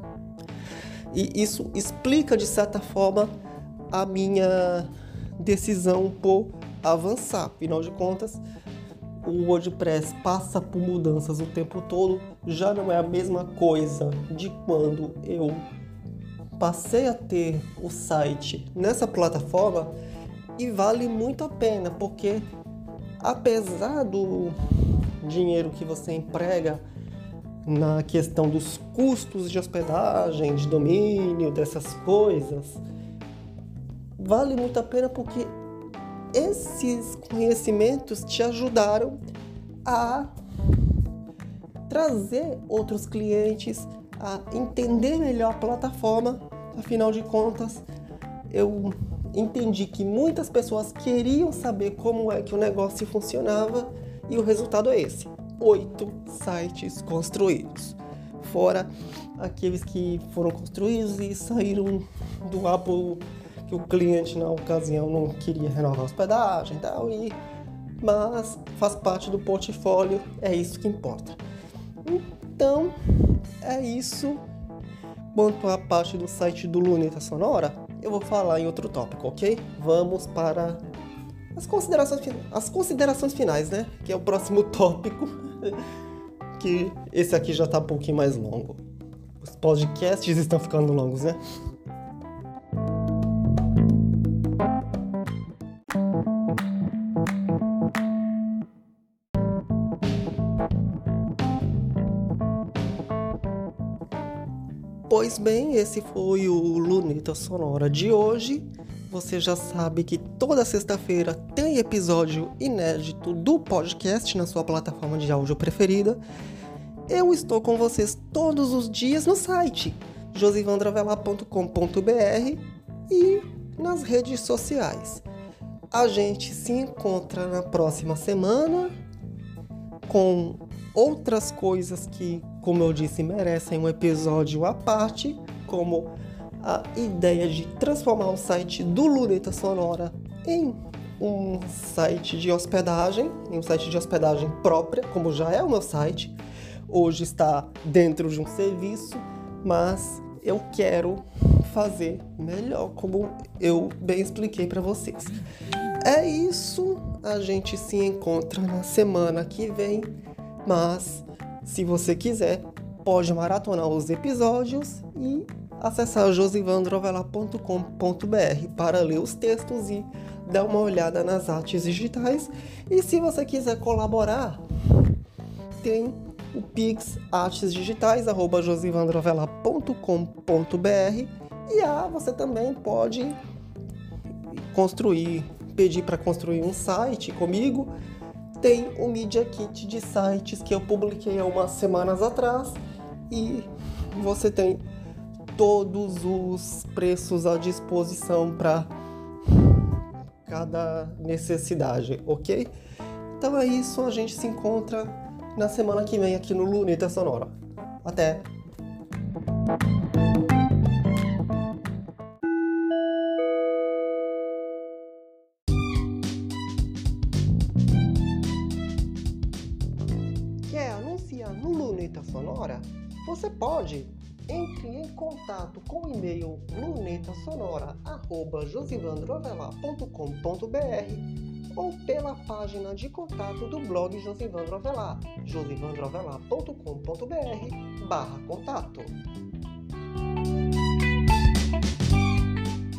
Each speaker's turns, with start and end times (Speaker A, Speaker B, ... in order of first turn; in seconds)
Speaker A: 1.1-3.3, 3.9-8.4, 9.2-15.7, 16.6-19.9, 20.6-22.5, 23.2-24.6, 25.2-26.8, 27.6-32.8, 34.2-35.5, 36.3-39.2, 39.9-40.3, 41.9-47.8, 48.5-67.4, 68.0-71.4, 72.0-72.9, 73.6-74.4, 75.3-80.8, 81.5-85.8, 86.5-88.8, 89.4-91.4, 105.1-116.2, 117.1-125.2, 125.9-128.9, 130.1-146.4, 146.9-155.4, 156.0-174.6, 175.8-183.4, 184.5-187.9, 188.6-192.8, 193.3-194.8, 195.6-198.9, 200.5-202.7, 203.4-208.5, 220.6-239.2